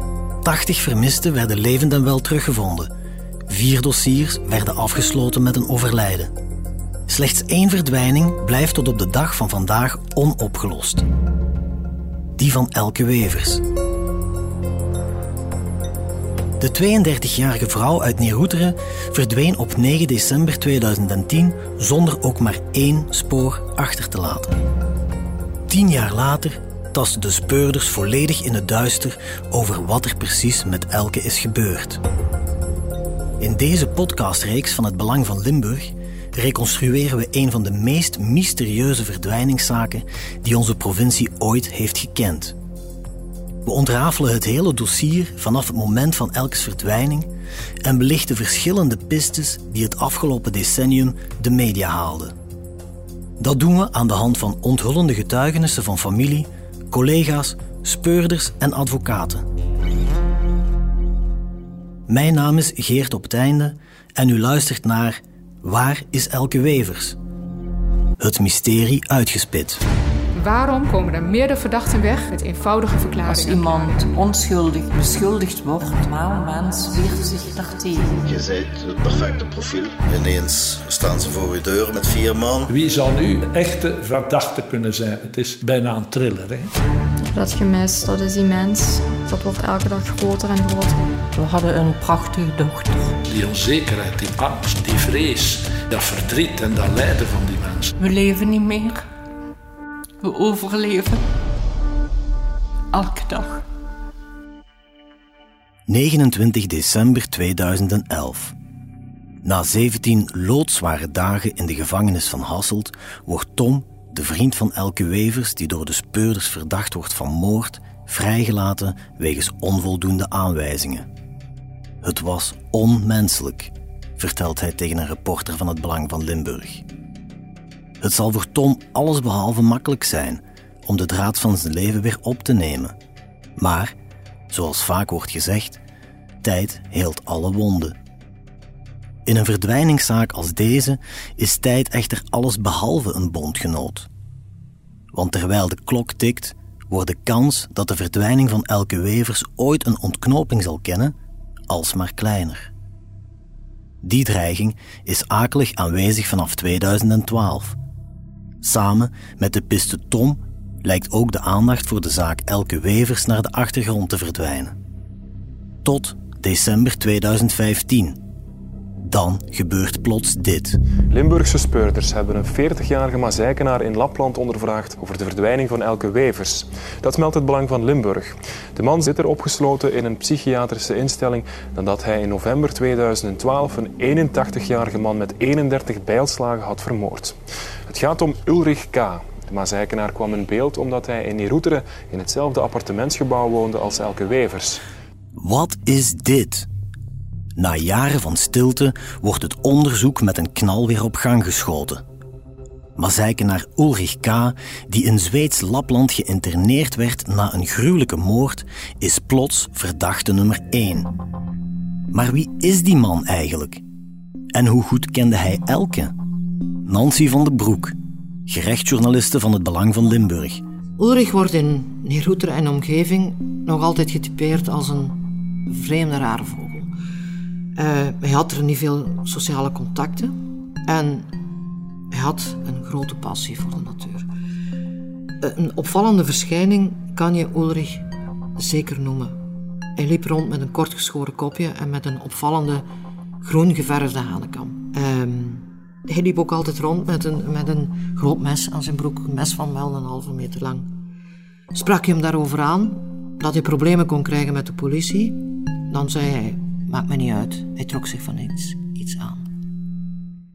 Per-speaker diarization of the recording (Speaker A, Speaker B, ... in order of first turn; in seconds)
Speaker A: 0.4-2.9, 3.5-6.3, 7.1-11.1, 12.4-13.6, 16.6-24.5, 25.7-32.0, 33.4-42.6, 43.6-47.3, 47.8-52.3, 53.4-59.5, 62.1-67.2, 68.2-69.8, 105.9-108.5, 109.4-121.0, 122.0-126.8, 128.0-132.9, 133.6-133.9, 134.5-135.8, 136.4-138.0, 139.2-144.1, 145.1-151.1, 151.7-152.7, 154.0-157.8, 158.6-164.7, 165.8-168.2, 169.0-170.8, 195.3-196.7, 197.6-202.0, 203.0-211.1, 212.1-213.8, 214.5-216.1, 216.8-217.9, 218.5-220.6
Speaker B: 70.4-73.9
Speaker C: 73.3-78.2, 91.3-93.1, 98.0-99.0, 100.2-101.2, 102.9-103.6
Speaker D: 78.2-82.7
Speaker E: 82.7-86.7, 93.3-97.9
Speaker F: 87.2-91.1
Speaker G: 171.1-194.8
Speaker H: 221.0-226.9, 227.8-231.3, 232.1-234.3, 235.4-238.0, 238.6-239.4, 239.9-242.8, 243.4-250.9, 251.7-259.4